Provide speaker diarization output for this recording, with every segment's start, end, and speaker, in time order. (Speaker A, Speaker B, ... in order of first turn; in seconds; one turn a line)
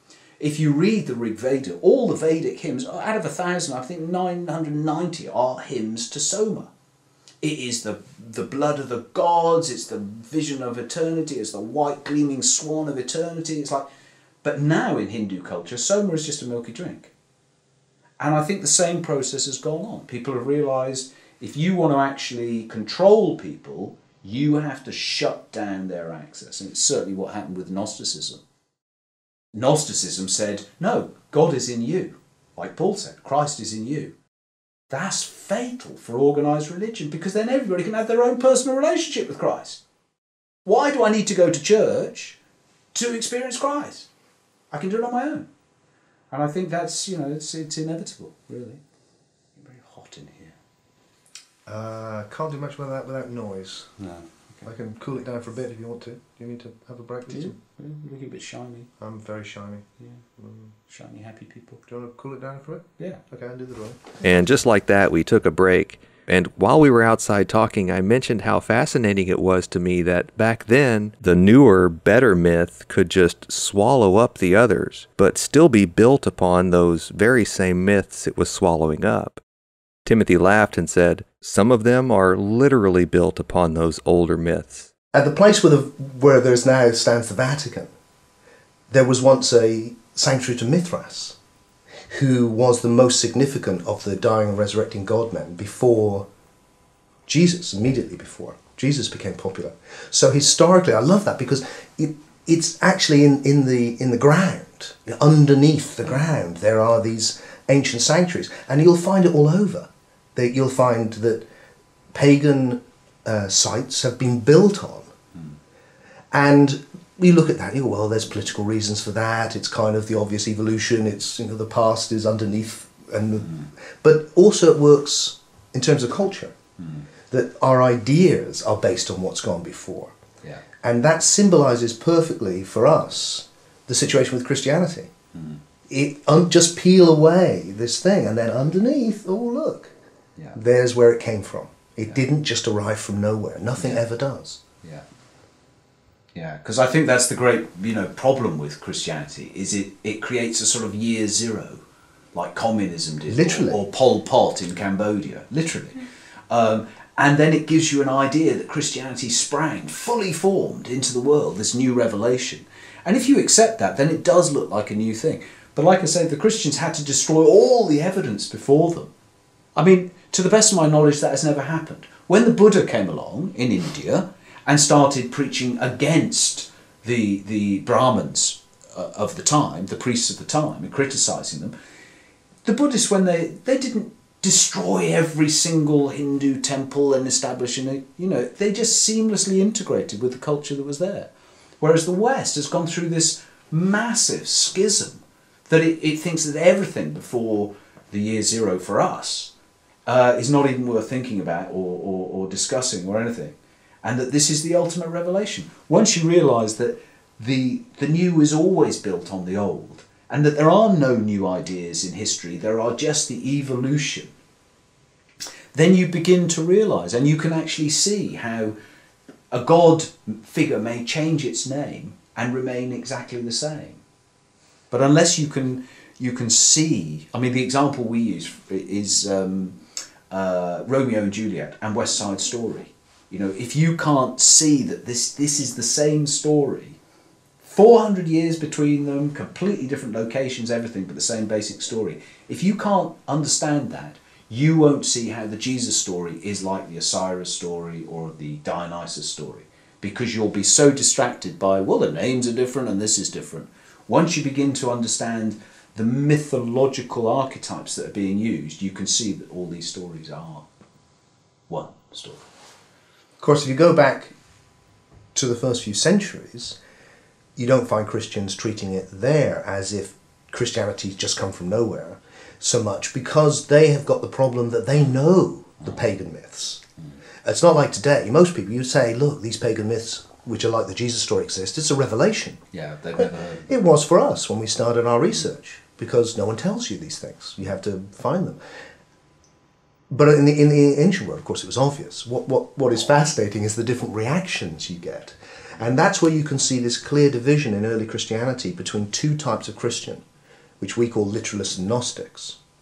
Speaker A: 0.4-6.7
Speaker A: 7.4-13.9
Speaker A: 14.4-17.1
Speaker A: 18.2-28.4
Speaker A: 29.5-34.1
Speaker A: 34.9-39.8
Speaker A: 40.6-42.4
Speaker A: 42.9-44.1
Speaker A: 44.7-45.5
Speaker A: 46.3-48.8
Speaker A: 49.6-50.6
Speaker B: 51.7-53.9
Speaker A: 54.0-54.7
Speaker B: 54.6-57.6
Speaker A: 57.3-58.9
Speaker B: 59.0-59.9
Speaker A: 60.0-60.2
Speaker B: 60.4-60.7
Speaker A: 60.9-61.8
Speaker B: 61.9-64.1
Speaker C: 64.2-79.4
Speaker C: 80.0-84.9
Speaker B: 85.1-87.9
Speaker B: 88.9-91.4
Speaker B: 92.1-96.3
Speaker B: 97.3-111.5
Speaker B: 112.1-115.1
Speaker B: 116.3-126.6
Speaker A: 126.8-127.1
Speaker B: 127.3-130.2
Speaker B: 130.8-135.1
Speaker A: 135.3-135.6
Speaker B: 135.9-139.9
Speaker B: 140.6-144.6
Speaker A: 143.8-144.0
Speaker A: 146.3-156.0
Speaker B: 153.3-153.8
Speaker A: 156.5-169.1
Speaker A: 169.8-181.7
Speaker A: 182.6-199.5
Speaker A: 200.1-214.3
Speaker A: 215.7-218.8
Speaker A: 219.5-224.0
Speaker A: 224.9-229.8
Speaker A: 230.3-237.0
Speaker A: 237.6-260.7
Speaker A: 261.7-262.5
Speaker B: 263.4-264.3
Speaker B: 265.4-266.8
Speaker B: 267.6-276.8
Speaker B: 277.4-282.6
Speaker A: 282.7-283.7
Speaker B: 283.2-288.6
Speaker B: 290.1-300.2
Speaker B: 300.8-302.6